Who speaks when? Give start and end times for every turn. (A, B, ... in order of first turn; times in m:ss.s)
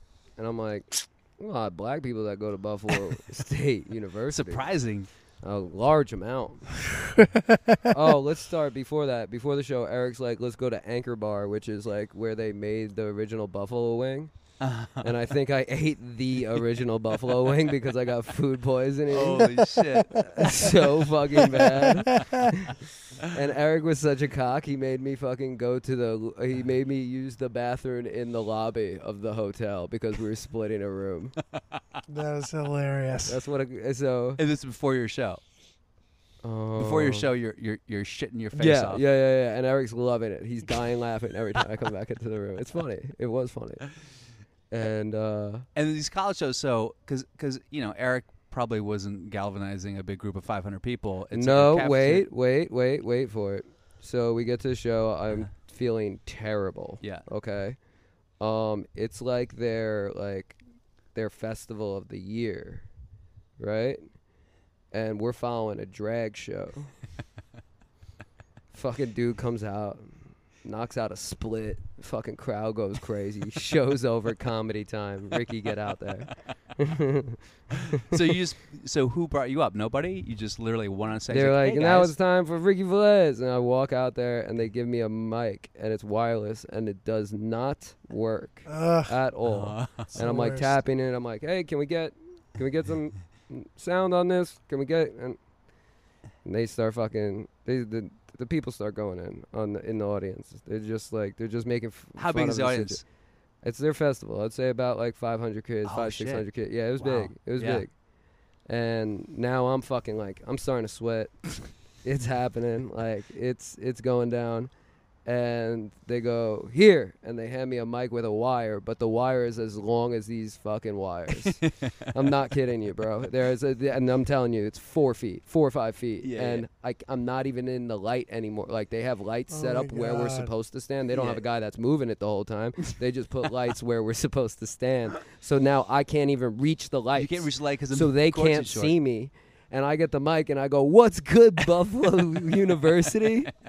0:00.4-0:04.7 A
0:04.3-0:05.1 B
0:05.4-0:06.8 A
0:07.9-0:31.4 A
0:14.6-0:15.1 B
0:19.1-0:20.6 B
0:32.1-0:33.4 C
0:33.2-0:34.4 A
0:34.4-0:35.4 B
0:36.4-0:37.3 A
0:36.8-0:39.0 B
0:38.5-0:43.9 A
0:44.7-0:45.7 A
0:45.8-0:52.3 B
0:51.3-0:57.8 A
0:57.0-0:57.3 B
0:58.4-1:00.6 A
1:01.1-1:02.9 A
1:03.6-1:04.2 A
1:04.9-1:06.9 A
1:08.7-1:17.4 A
1:18.1-1:22.2 B
1:21.3-1:35.4 A
1:28.7-1:29.2 C
1:29.5-1:30.2 B
1:30.1-1:30.8 C
1:36.4-1:43.1 A
1:42.2-1:43.0 B
1:43.6-1:48.0 A
1:45.8-1:47.9 B
1:48.6-1:54.7 A
1:55.2-2:23.5 A
2:01.6-2:01.9 B
2:06.2-2:06.7 B
2:09.5-2:10.5 C
2:11.1-2:11.4 B
2:17.2-2:19.0 B